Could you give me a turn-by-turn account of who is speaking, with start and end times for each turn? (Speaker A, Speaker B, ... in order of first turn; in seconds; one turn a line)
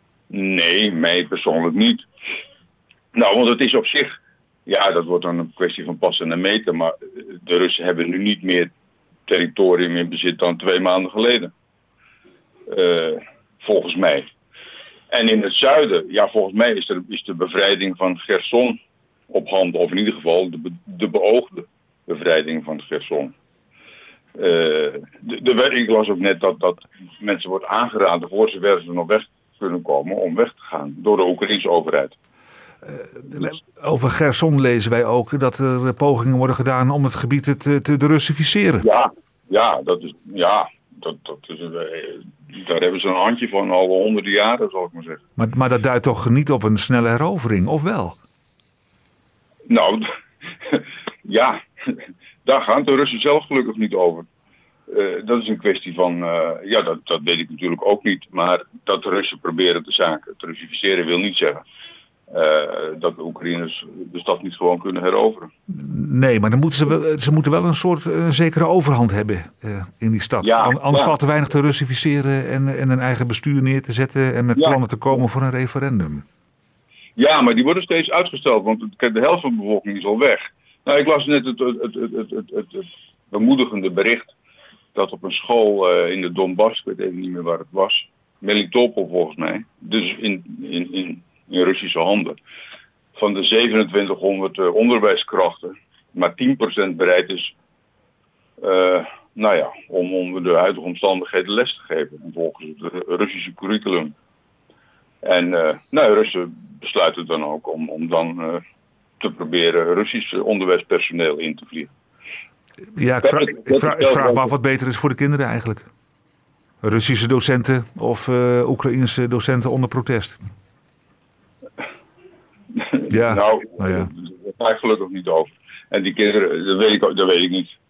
Speaker A: 0.3-2.1
Speaker A: 3.1-8.7
Speaker A: 9.3-11.5
Speaker A: 12.7-14.3
Speaker A: 15.1-18.8
Speaker A: 19.3-23.3
Speaker A: 24.3-32.1
Speaker B: 32.9-38.8
Speaker A: 38.8-45.2
Speaker B: 45.4-48.2
Speaker A: 49.7-54.3
Speaker A: 54.9-61.6
Speaker A: 62.3-65.5
Speaker B: 65.7-76.2
Speaker A: 70.4-71.1
Speaker A: 74.5-75.2
Speaker A: 77.2-84.3
Speaker A: 84.9-92.4
Speaker A: 93.1-97.5
Speaker A: 98.6-104.1
Speaker A: 105.2-108.6
Speaker A: 109.2-111.9
Speaker B: 112.9-115.9
Speaker A: 113.2-114.5
Speaker B: 116.8-120.4
Speaker A: 122.7-127.7
Speaker B: 123.1-124.1